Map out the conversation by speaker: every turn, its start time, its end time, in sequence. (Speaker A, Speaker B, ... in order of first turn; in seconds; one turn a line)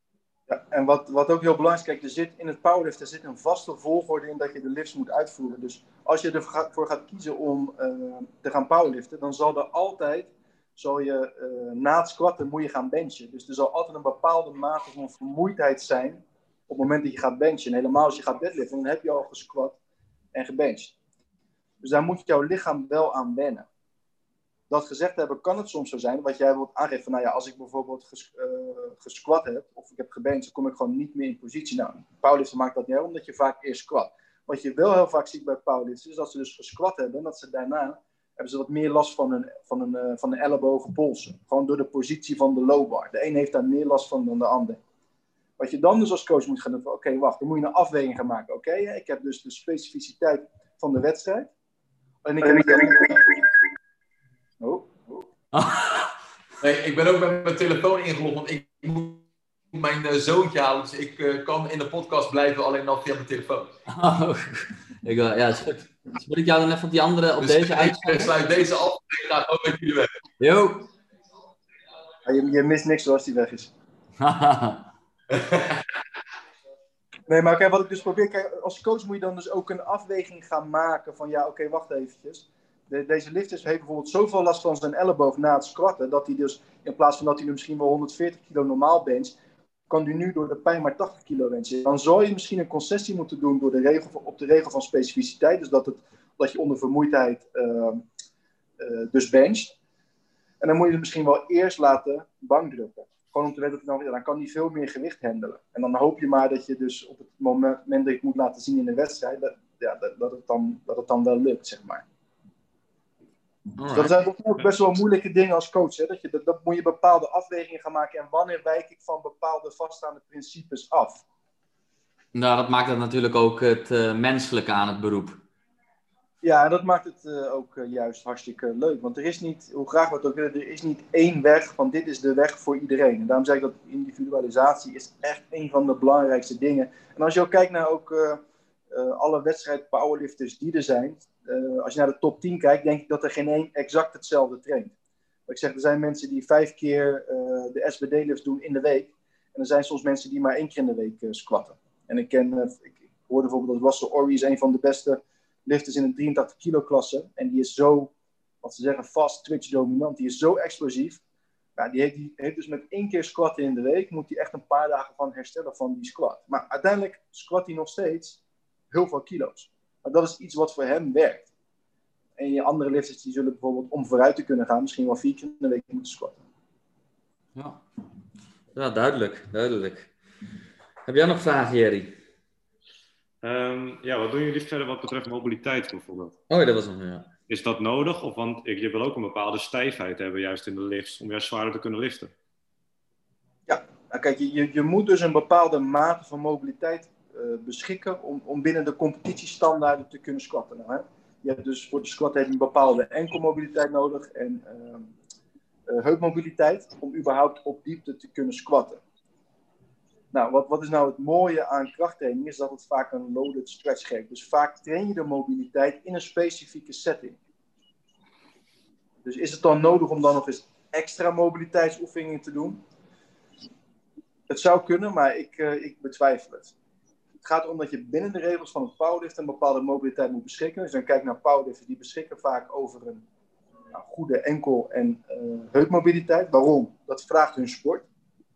Speaker A: 0.5-19.8
Speaker A: 20.3-20.9
Speaker A: 21.8-23.6
Speaker A: 24.7-44.8
Speaker A: 45.6-51.5
Speaker A: 52.2-53.3
Speaker A: 54.6-55.2
Speaker B: 55.5-56.1
Speaker C: 56.6-63.7
Speaker B: 63.9-68.3
Speaker C: 67.4-70.1
Speaker B: 70.4-70.9
Speaker A: 72.2-73.7
Speaker B: 74.2-74.9
Speaker C: 75.3-75.8
Speaker A: 77.3-89.3
Speaker A: 89.9-98.0
Speaker A: 98.8-99.8
Speaker A: 100.6-112.0
Speaker B: 113.8-114.1
Speaker A: 113.9-121.2
Speaker B: 122.3-125.4
Speaker A: 126.4-144.9
Speaker A: 145.5-161.2
Speaker A: 161.8-168.4
Speaker A: 168.9-171.5
Speaker A: 172.4-176.4
Speaker B: 177.6-177.8
Speaker B: 178.7-180.1
Speaker B: 181.0-182.2
Speaker D: 183.4-186.3
Speaker B: 186.5-187.3
Speaker D: 187.5-192.3
Speaker A: 193.7-205.1
Speaker A: 205.9-209.0
Speaker A: 210.3-217.4
Speaker A: 219.2-222.8
Speaker A: 224.5-226.7
Speaker A: 227.4-233.2
Speaker A: 233.9-238.1